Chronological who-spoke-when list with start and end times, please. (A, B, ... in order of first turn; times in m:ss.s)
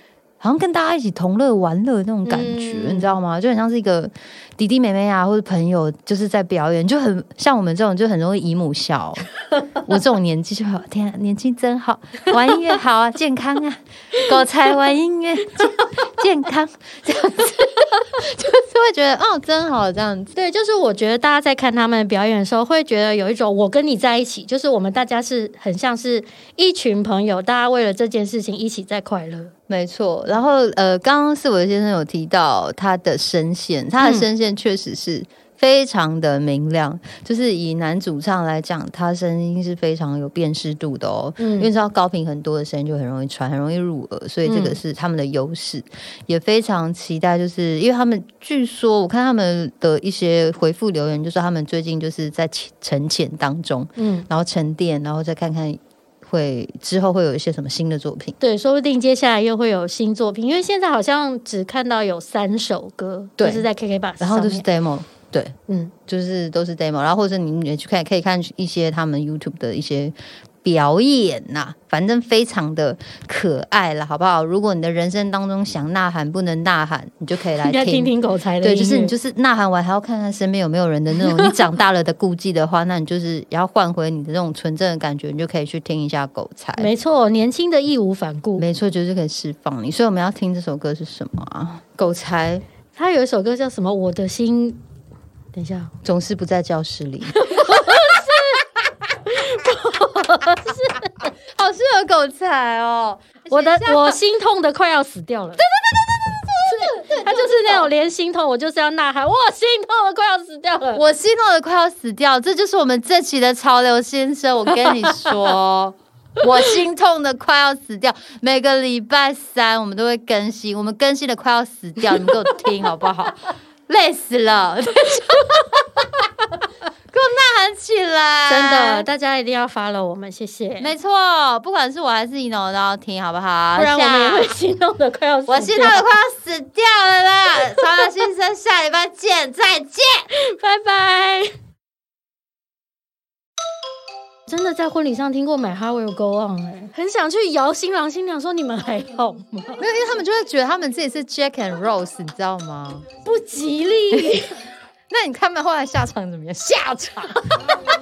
0:00.4-0:20.3 A
0:02.2-0:03.1 B
0:20.3-0:29.5 B
0:29.7-0:58.3 A
0:34.0-0:34.3 B
0:41.4-0:41.7 B
0:44.4-0:44.8 B
0:54.0-0:54.3 B
0:58.4-1:04.6 B
1:03.4-1:03.6 A
1:04.2-1:05.6 A
1:05.7-1:05.9 B
1:06.1-1:26.9 A
1:17.4-1:19.1 B
1:21.2-1:21.5 B
1:26.8-1:28.6 B
1:28.6-1:32.6 A
1:32.9-1:34.8 B
1:35.5-1:35.9 B
1:36.0-1:37.9 A
1:37.3-1:38.6 B
1:39.2-1:41.3 B
1:41.5-1:44.1 A
1:43.5-1:45.6 B
1:45.6-1:47.9 A
1:46.6-1:51.0 B
1:50.9-2:05.9 A
1:54.7-1:55.4 B
2:07.1-2:09.1 A
2:08.5-2:10.9 B
2:10.8-2:14.5 A
2:13.8-2:16.0 B
2:15.5-2:20.3 A
2:20.3-2:21.5 B
2:24.5-2:29.8 B
2:29.8-2:33.0 A
2:33.2-2:34.6 B
2:35.1-2:37.8 A